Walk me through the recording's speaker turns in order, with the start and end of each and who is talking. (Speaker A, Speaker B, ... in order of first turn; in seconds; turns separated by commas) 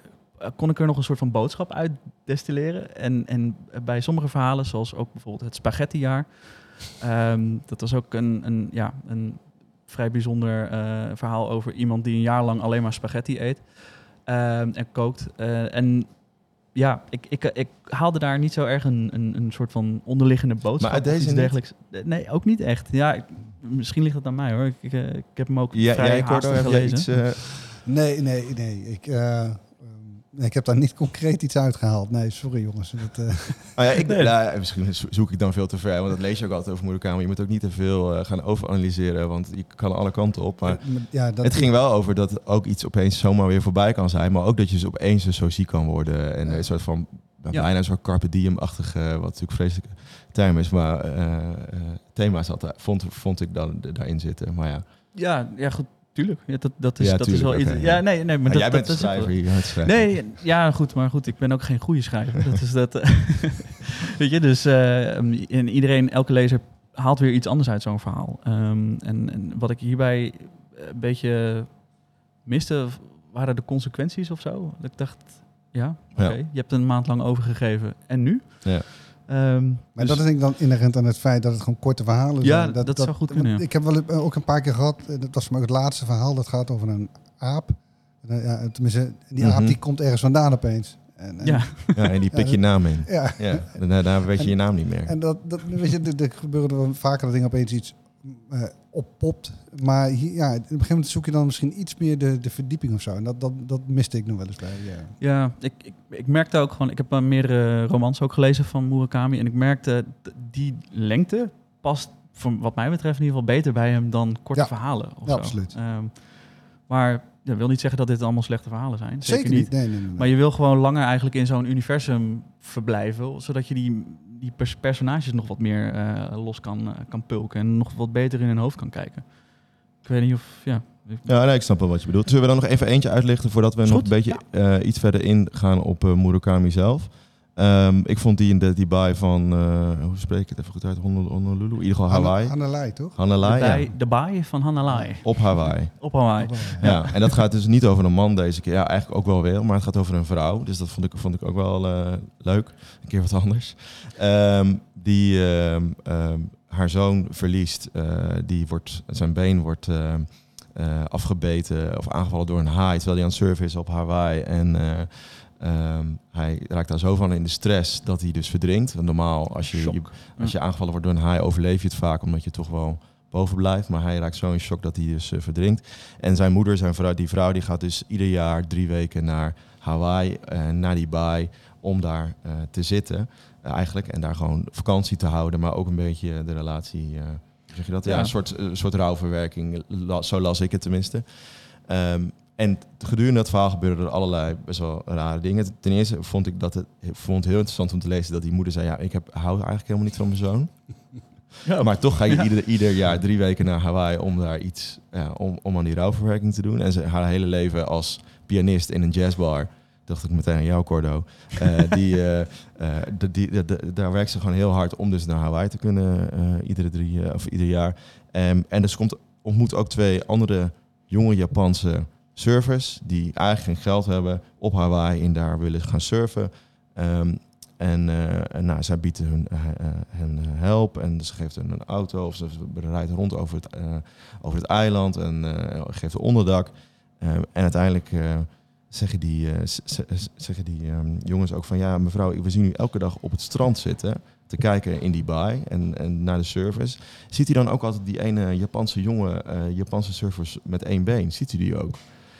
Speaker A: 0.4-27.4, Speaker B: 20.8-21.6, Speaker B: 25.7-27.4, Speaker C: 27.8-33.7, Speaker B: 33.7-54.8, Speaker C: 40.6-41.7, Speaker A: 55.1-80.2, Speaker B: 57.0-60.3, Speaker C: 79.9-105.2, Speaker A: 82.4-83.6, Speaker B: 89.4-89.8, Speaker A: 91.4-92.1, Speaker B: 91.9-95.2, Speaker A: 105.2-131.2, Speaker C: 114.5-115.7, Speaker C: 119.2-120.3, Speaker B: 131.2-143.9, Speaker A: 133.8-134.4, Speaker C: 142.1-143.2, Speaker A: 143.4-147.2, Speaker C: 144.9-145.2, Speaker B: 145.2-201.0, Speaker C: 146.4-146.9, Speaker A: 169.7-170.5, Speaker A: 188.0-188.3, Speaker A: 201.6-202.5, Speaker B: 201.8-252.2